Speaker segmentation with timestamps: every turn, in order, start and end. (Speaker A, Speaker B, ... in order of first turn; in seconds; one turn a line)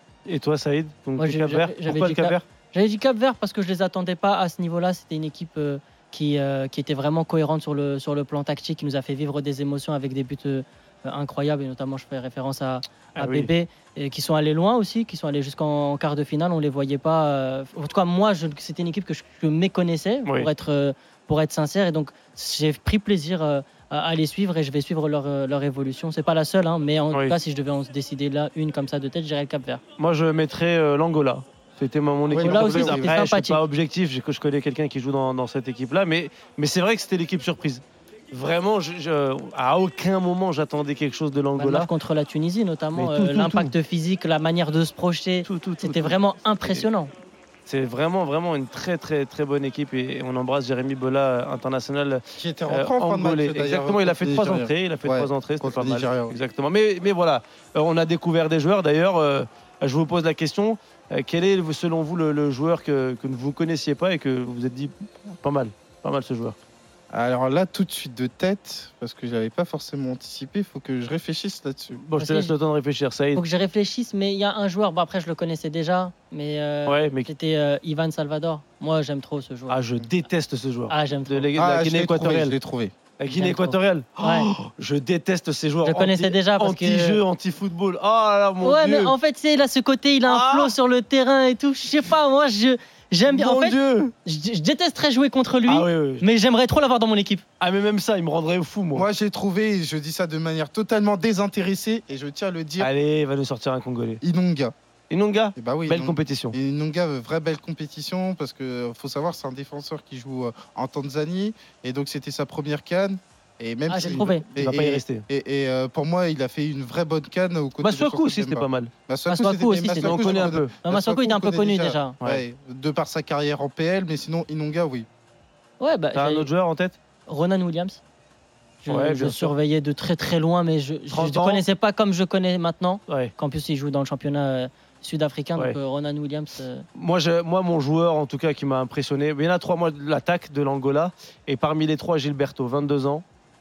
Speaker A: 0.3-2.4
Speaker B: 1.2-29.8
Speaker A: 13.2-13.5
Speaker A: 30.0-41.9
Speaker C: 32.3-33.2
Speaker B: 32.3-33.6
Speaker B: 41.6-47.1
Speaker A: 43.0-43.7
Speaker A: 45.5-46.8
Speaker A: 47.6-66.5
Speaker C: 52.4-56.4
Speaker C: 67.1-72.0
Speaker A: 71.9-73.4
Speaker B: 72.2-72.5
Speaker B: 73.3-79.8
Speaker A: 76.8-77.3
Speaker A: 79.7-82.5
Speaker B: 80.9-81.5
Speaker C: 81.5-82.9
Speaker A: 83.2-89.2
Speaker B: 83.3-84.5
Speaker B: 85.8-87.2
Speaker B: 88.6-97.4
Speaker A: 90.2-90.7
Speaker A: 93.3-94.1
Speaker A: 95.7-96.2
Speaker A: 97.6-99.1
Speaker C: 98.9-102.9
Speaker A: 102.8-104.2
Speaker C: 104.2-104.7
Speaker A: 105.1-106.5
Speaker C: 105.5-125.1
Speaker B: 113.9-114.5
Speaker A: 114.1-115.2
Speaker A: 117.8-118.9
Speaker B: 119.3-122.2
Speaker A: 120.0-120.7
Speaker B: 125.8-126.5
Speaker A: 126.1-127.0
Speaker B: 127.3-128.0
Speaker B: 128.8-136.8
Speaker A: 128.9-129.5
Speaker A: 131.1-131.6
Speaker A: 136.9-143.2